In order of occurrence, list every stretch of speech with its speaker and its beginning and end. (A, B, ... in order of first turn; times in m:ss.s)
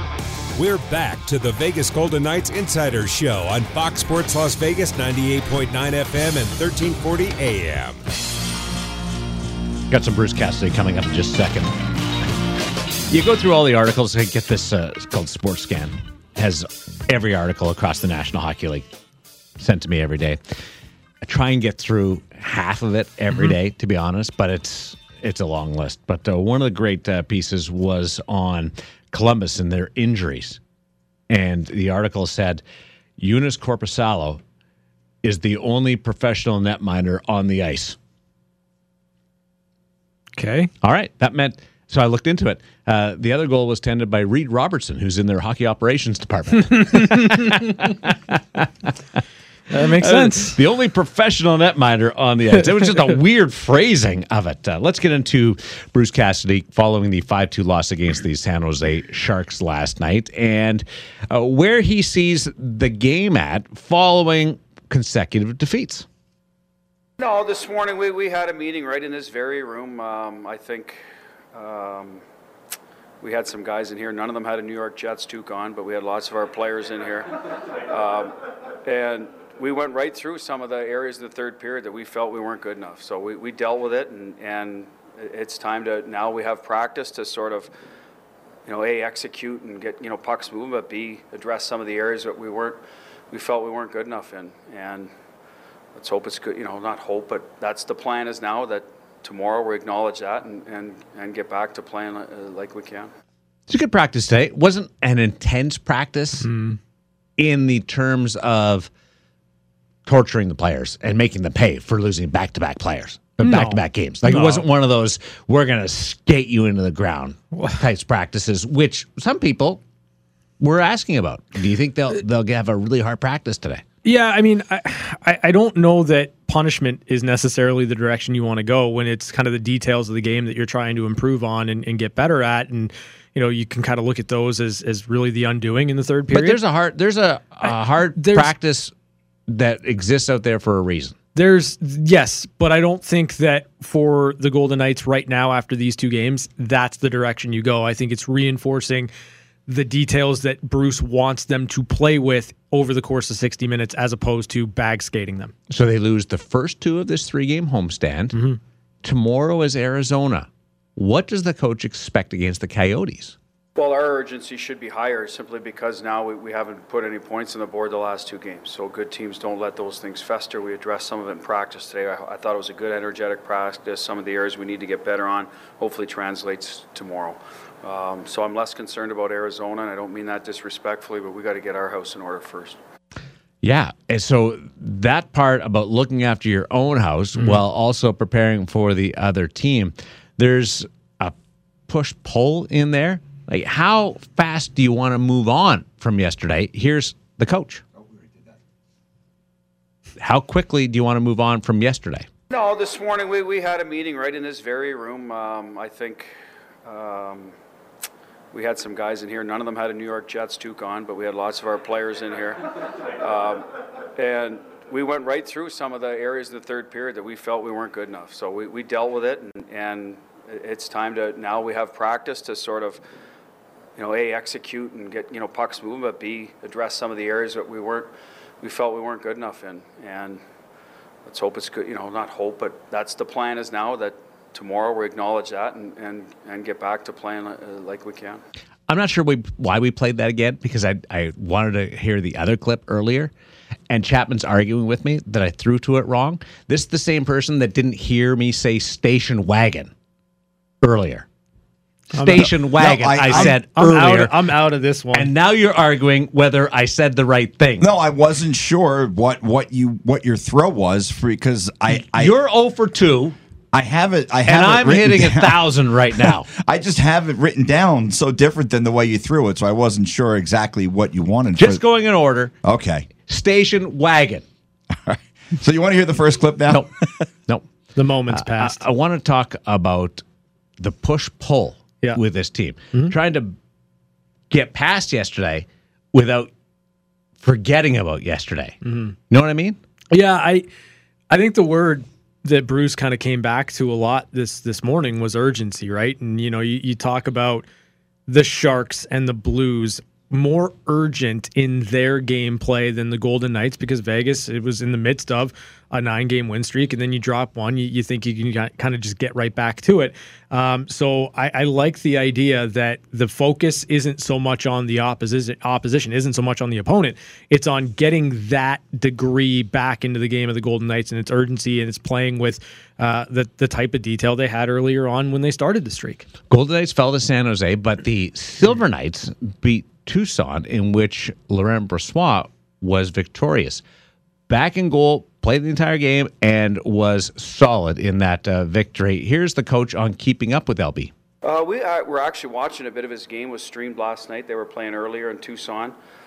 0:00.5-0:08.0 A
0:09.9-0:11.7 B
0:13.1-0:18.8 B
0:19.6-0:20.4 B
0:21.2-0:30.6 B
0:23.3-0:23.5 C
0:31.3-0:32.6 B
0:33.2-0:34.4 B
0:35.2-0:38.0 B
0:40.4-0:40.7 C
0:40.8-0:48.9 B
0:46.7-0:47.6 C
0:49.7-0:50.6 C
0:50.0-1:06.0 B
1:07.2-1:11.0 D
1:11.5-1:12.2 D
1:13.2-1:27.7 D
1:28.6-1:35.1 D
1:35.9-1:43.1 D
1:43.7-1:46.5 B
1:46.4-1:46.8 C
1:47.4-1:48.9 B
1:50.0-1:59.8 B
1:53.4-1:54.6 C
2:00.6-2:03.8 B
2:04.0-2:16.6 C
2:16.3-2:18.9 B
2:17.6-2:18.5 C
2:19.5-2:21.2 B
2:21.3-2:29.1 C
2:29.7-2:35.5 C
2:35.7-2:38.4 B
2:38.3-2:38.6 C
2:39.0-2:43.3 B
2:43.8-3:02.8 D
3:03.6-3:11.3 B
3:07.4-3:07.6 C
3:11.9-3:17.8 B
3:20.2-3:22.3 B
3:22.5-3:26.3 D
3:26.8-3:27.5 D
3:28.5-3:43.0 D
3:44.0-3:50.4 D
3:51.2-3:58.4 D
3:58.9-4:03.3 B
4:03.9-4:09.9 B
4:10.8-4:11.2 B
4:12.1-4:12.6 C
4:12.1-4:14.4 B
4:12.3-4:13.6 E
4:13.3-4:15.3 C
4:15.1-4:17.9 B
4:17.8-4:22.3 E
4:22.1-4:23.4 B
4:23.7-4:31.8 E
4:24.5-4:26.5 B
4:31.6-4:32.5 B
4:32.6-4:33.1 E
4:33.3-4:34.4 B
4:35.0-4:36.9 E
4:38.0-4:38.8 C
4:38.3-4:40.2 B
4:40.8-4:43.5 B
4:44.5-4:46.5 B
4:47.4-4:48.8 B
4:48.8-4:49.1 C
4:49.3-4:49.8 B
4:50.1-4:50.7 C
4:51.3-4:57.7 C
4:58.3-5:26.2 C
5:26.5-5:33.8 B
5:34.5-5:41.1 B
5:41.4-5:46.0 D